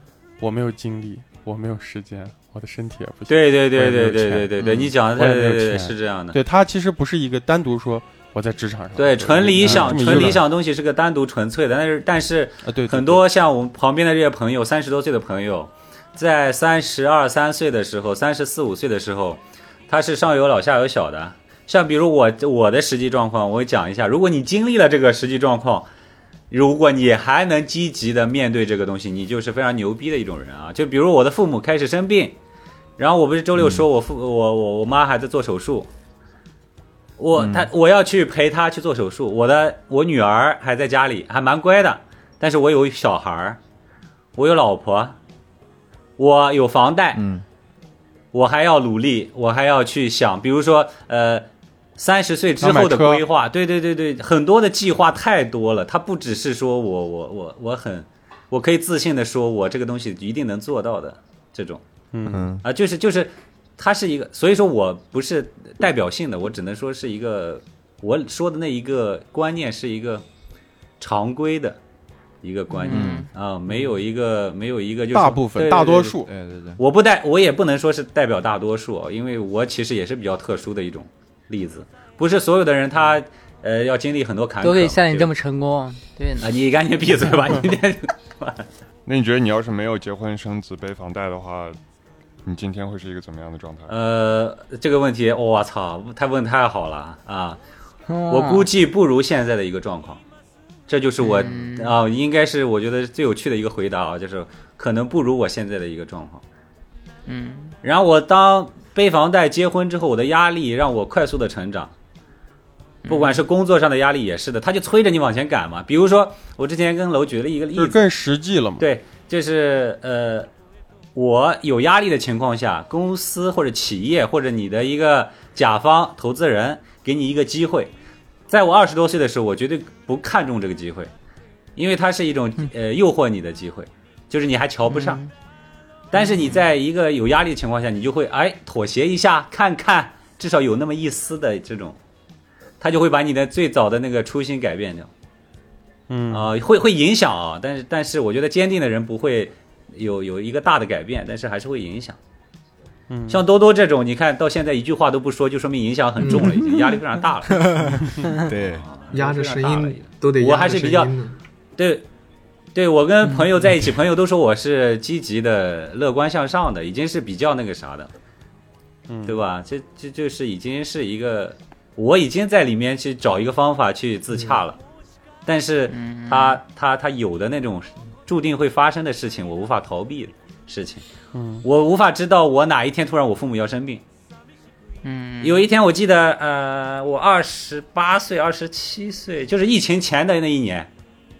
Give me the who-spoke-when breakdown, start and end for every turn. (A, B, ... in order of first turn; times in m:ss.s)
0:00.4-0:04.5 A
0:03.3-0:06.4 B
0:04.6-0:04.9 C
0:05.1-0:10.4 A
0:09.0-0:25.9 B
0:09.7-0:10.0 C
0:12.6-0:13.2 A
0:26.5-0:32.4 B
0:33.0-0:35.9 B
0:33.6-0:33.8 C
0:37.2-0:43.6 B
0:37.3-0:37.7 C
0:44.4-0:45.2 B
0:46.2-0:47.2 B
0:47.1-0:47.4 C
0:48.3-1:01.8 B
0:52.6-0:53.2 A
1:02.1-1:02.5 A
1:02.2-1:02.6 C
1:02.6-1:10.2 B
1:11.0-1:11.8 B
1:12.4-1:16.2 B
1:12.8-1:13.3 D
1:12.9-1:13.2 C
1:15.1-1:16.3 A
1:16.2-1:16.8 C
1:16.8-1:25.3 B
1:24.6-1:26.5 D
1:26.4-1:28.6 B
1:29.0-1:31.8 E
1:32.4-1:33.9 E
1:33.9-1:37.6 B
1:38.1-1:38.6 D
1:38.3-1:40.2 B
1:40.9-1:46.4 B
1:41.2-1:42.0 D
1:47.3-1:47.7 D
1:47.8-1:51.9 B
1:53.0-1:53.4 D
1:53.1-1:58.0 B
1:57.7-1:58.8 A
1:58.8-2:00.5 B
2:01.1-2:07.9 B
2:08.5-2:11.1 B
2:11.8-2:15.2 B
2:14.9-2:15.3 D
2:16.1-2:22.0 B
2:22.8-2:25.1 B
2:26.1-2:26.5 A
2:26.3-2:32.2 B
2:33.1-2:33.4 A
2:33.3-2:37.8 B
2:36.2-2:36.7 F
2:37.5-2:38.8 C
2:38.4-2:41.1 B
2:39.1-2:41.4 F
2:41.8-2:42.0 B
2:42.7-2:48.1 B
2:49.1-2:49.4 A
2:49.2-2:54.8 B
2:55.4-3:01.0 B
2:55.9-2:56.6 D
3:01.3-3:01.6 A
3:01.6-3:04.0 B
3:05.0-3:05.6 D
3:05.4-3:10.9 B